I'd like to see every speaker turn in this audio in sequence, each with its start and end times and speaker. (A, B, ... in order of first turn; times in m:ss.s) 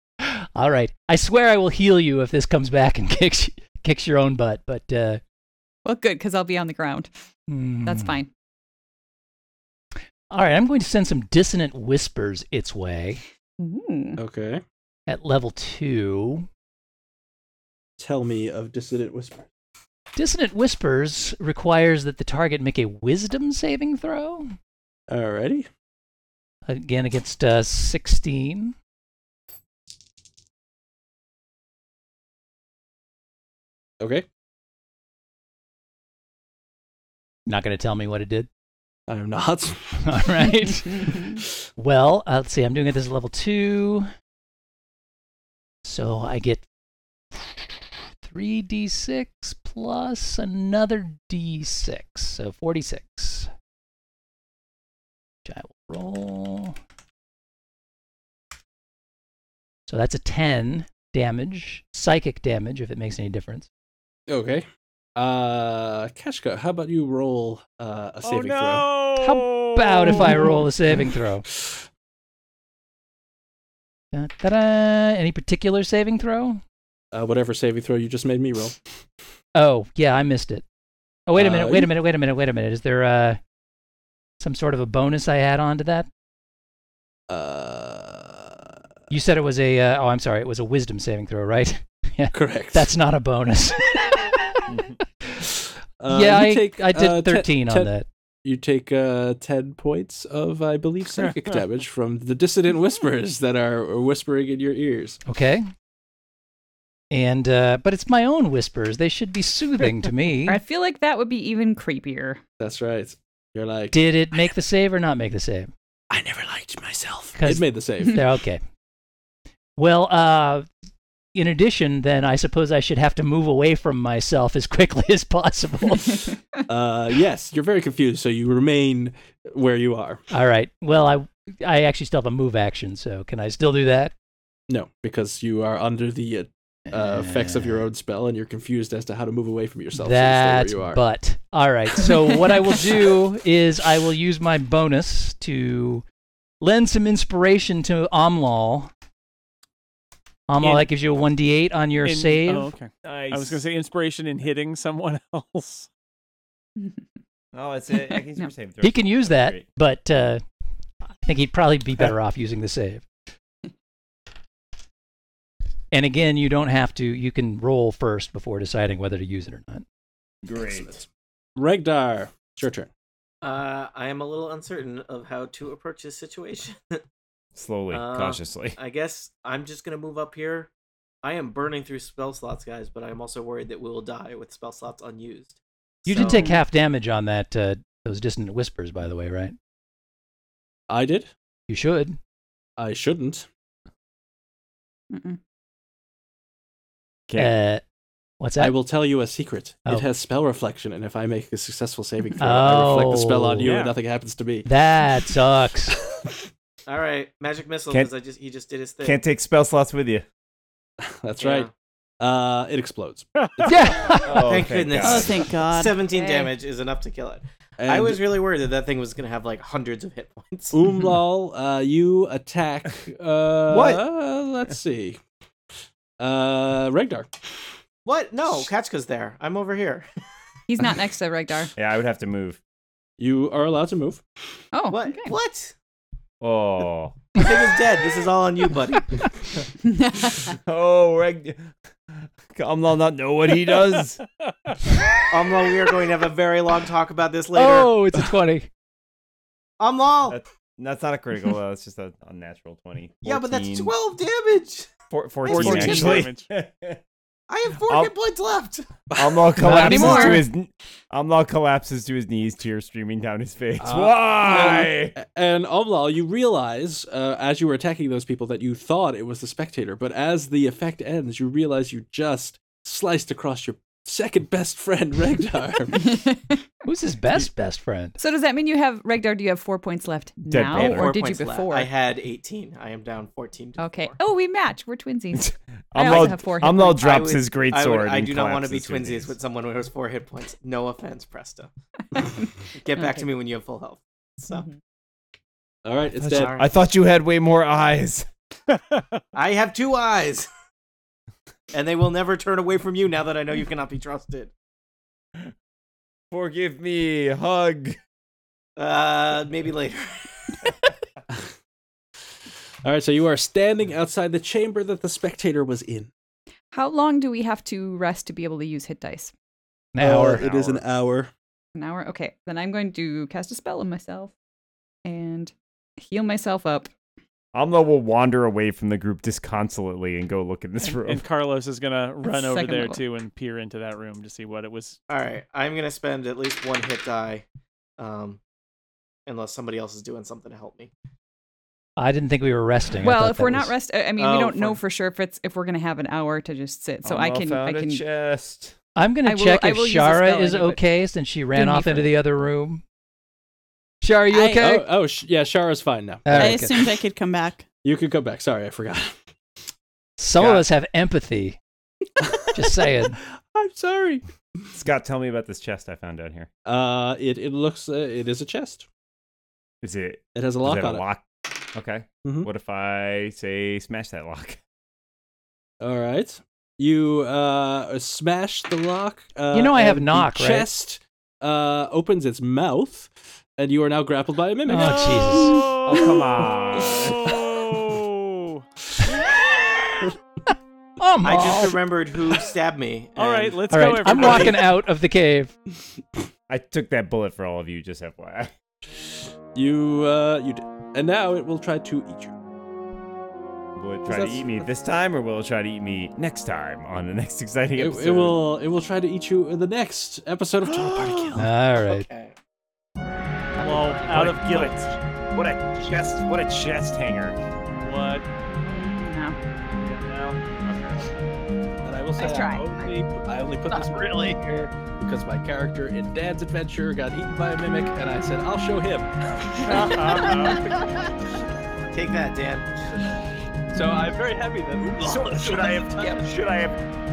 0:00.2-0:05.2 A
0:05.8-0:07.1 B
0:07.5-0:08.2 A
0:07.8-0:08.3 B
0:10.3-0:13.2 A
0:13.6-0:14.2 B
0:14.2-0:14.6 C
0:15.1-0:16.5 A
0:18.0-0:19.4 C
0:20.1-0:24.5 A
0:25.1-0:25.7 C
0:26.6-0:28.8 A
0:34.0-0:34.2 C
0:37.5-0:38.5 A
0:39.1-0:40.1 C
0:40.0-0:44.1 A
0:45.8-0:46.6 A
0:47.3-0:53.5 A
0:55.4-0:56.8 A
0:59.9-1:03.7 A
1:04.3-1:08.9 C
1:08.2-1:10.6 D
1:09.2-1:11.4 A
1:11.5-1:11.8 C
1:14.1-1:16.6 A
1:17.1-1:18.8 C
1:19.5-1:20.6 A
1:21.3-1:23.4 A
1:21.4-1:21.9 C
1:24.4-1:26.1 A
1:27.3-1:28.6 C
1:29.1-1:34.7 A
1:32.3-1:32.9 C
1:34.7-1:35.0 E
1:36.0-1:37.9 C
1:36.1-1:38.1 A
1:38.4-1:45.2 C
1:45.2-1:45.7 A
1:47.1-1:50.6 A
1:50.4-1:52.4 B
1:52.6-1:54.0 C
1:53.9-1:55.7 A
1:56.1-1:58.2 C
1:57.4-1:58.6 A
1:59.8-2:00.7 A
2:01.3-2:06.4 A
2:06.7-2:10.2 C
2:10.3-2:14.1 A
2:14.7-2:21.0 C
2:16.9-2:17.9 A
2:19.9-2:26.0 A
2:26.6-2:28.9 A
2:30.5-2:32.7 A
2:30.6-2:30.9 D
2:32.0-2:35.9 D
2:33.0-2:33.6 E
2:37.5-2:39.6 E
2:37.9-2:38.5 B
2:38.8-2:40.4 A
2:41.1-2:43.1 A
2:45.9-2:49.8 A
2:50.4-2:51.0 E
2:50.6-2:51.0 C
2:51.6-2:52.9 C
2:53.4-2:57.0 F
2:57.6-2:58.8 E
2:57.9-3:00.7 F
3:01.2-3:06.4 F
3:06.0-3:09.6 A
3:06.2-3:06.6 B
3:10.9-3:11.3 C
3:11.7-3:12.2 A
3:12.8-3:13.4 C
3:15.1-3:15.4 B
3:17.3-3:17.5 E
3:17.4-3:17.8 A
3:18.4-3:18.8 A
3:18.6-3:24.7 C
3:22.4-3:23.7 A
3:23.6-3:23.9 D
3:24.6-3:26.0 A
3:26.9-3:29.2 F
3:29.0-3:30.2 E
3:31.0-3:31.7 C
3:31.4-3:31.7 F
3:32.2-3:33.9 C
3:33.4-3:33.8 D
3:33.7-3:34.6 A
3:34.2-3:35.4 E
3:34.4-3:40.8 F
3:35.0-3:36.0 G
3:36.1-3:36.5 B
3:37.8-3:38.2 C
3:40.7-3:45.2 C
3:46.2-3:47.3 C
3:48.0-3:50.0 F
3:50.7-3:51.7 B
3:51.8-3:52.6 E
3:53.2-3:54.2 C
3:54.7-3:55.3 B
3:54.9-3:55.7 F
3:56.4-3:57.3 E
3:57.4-3:59.2 F
3:59.8-4:00.5 B
4:00.5-4:04.2 E
4:05.3-4:08.0 F
4:07.5-4:08.7 A
4:09.8-4:10.4 F
4:10.3-4:13.9 E
4:13.2-4:14.9 F
4:15.1-4:17.0 E
4:15.4-4:16.5 D
4:15.5-4:16.2 F
4:15.6-4:16.1 C
4:17.5-4:19.0 F
4:17.8-4:18.1 E
4:19.1-4:20.3 C
4:19.2-4:25.1 E
4:19.6-4:20.4 A
4:19.8-4:20.4 B
4:23.8-4:36.2 C
4:35.9-4:36.6 B
4:36.8-4:38.2 A
4:38.2-4:41.9 B
4:40.5-4:41.1 E
4:40.7-4:44.1 F
4:43.8-4:47.0 B
4:45.3-4:49.4 E
4:47.0-4:51.7 F
4:52.1-4:53.3 B
4:52.8-4:54.7 F
4:55.8-4:56.5 C
4:56.2-4:58.3 E
4:56.3-4:56.7 F
4:58.7-4:59.2 D
4:59.3-5:00.5 F
5:01.7-5:04.5 F
5:06.3-5:08.0 E
5:08.8-5:10.6 F
5:12.8-5:16.1 C
5:16.7-5:19.3 B
5:19.9-5:20.4 A
5:20.0-5:21.3 C
5:20.3-5:20.8 E
5:21.7-5:24.3 B
5:25.0-5:26.9 B
5:27.5-5:31.2 E
5:30.8-5:35.0 D
5:32.2-5:33.0 B
5:35.1-5:37.4 F
5:38.0-5:38.4 F
5:39.3-5:40.9 F
5:42.0-5:43.7 A
5:43.0-5:48.0 B
5:44.2-5:44.8 F
5:47.0-5:48.8 E
5:49.0-5:52.8 A
5:49.2-5:50.8 B
5:51.5-5:52.1 B
5:54.0-5:54.8 A
5:54.4-5:56.7 C
5:56.2-5:56.9 A
5:56.3-5:57.6 G
5:57.8-5:59.2 C
6:00.2-6:01.6 A
6:02.2-6:04.2 C
6:02.5-6:03.2 A
6:04.7-6:06.5 E
6:06.6-6:08.8 C
6:09.8-6:14.6 E
6:10.3-6:11.0 C
6:12.2-6:12.5 C
6:15.8-6:25.4 C
6:19.5-6:20.7 A
6:24.6-6:25.6 A
6:24.8-6:28.6 D
6:25.9-6:27.4 E
6:31.0-6:31.8 A
6:31.2-6:34.5 F
6:33.2-6:34.7 D
6:33.7-6:35.5 A
6:36.5-6:38.5 E
6:39.5-6:42.3 C
6:43.8-6:48.4 E
6:44.1-6:44.7 C
6:47.7-6:51.5 C
6:51.4-6:52.0 A
6:51.8-6:52.4 F
6:53.6-6:55.0 D
6:54.0-6:54.8 E
6:55.3-6:57.4 E
6:57.7-6:58.2 D
6:58.6-6:59.4 B
6:59.8-7:01.2 E
7:01.8-7:10.7 C
7:02.2-7:02.9 B
7:04.1-7:04.4 E
7:09.7-7:10.8 E
7:11.9-7:12.7 F
7:13.7-7:16.3 C
7:15.0-7:16.8 E